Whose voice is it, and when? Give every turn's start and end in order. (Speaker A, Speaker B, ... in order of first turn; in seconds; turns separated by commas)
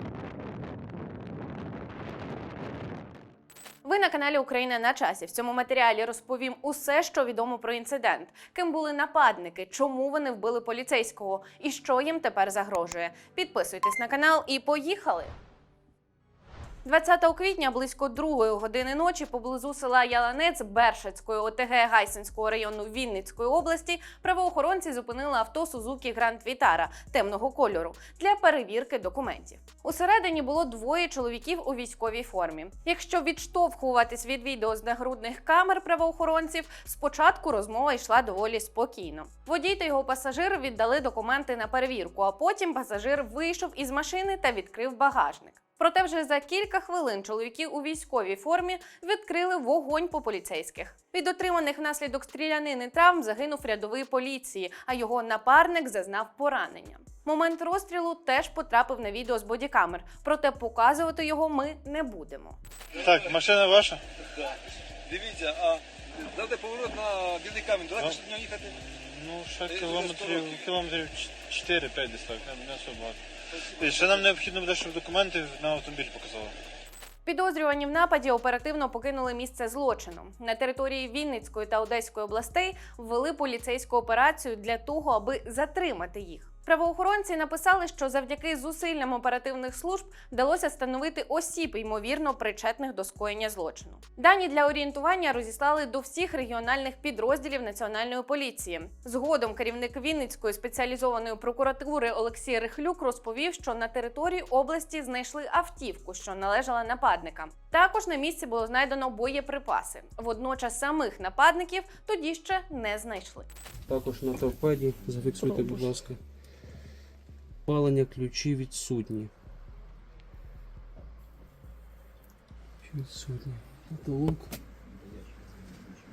Speaker A: 3.8-15.3, Speaker A: 16.9-62.6, Speaker B: 63.0-64.0, Speaker C: 65.1-65.8, Speaker C: 66.4-68.5, Speaker B: 68.7-73.2, Speaker C: 69.8-70.2, Speaker B: 73.8-76.5, Speaker A: 77.2-113.5, Speaker D: 113.9-116.2, Speaker D: 117.7-119.3, Speaker D: 122.9-124.5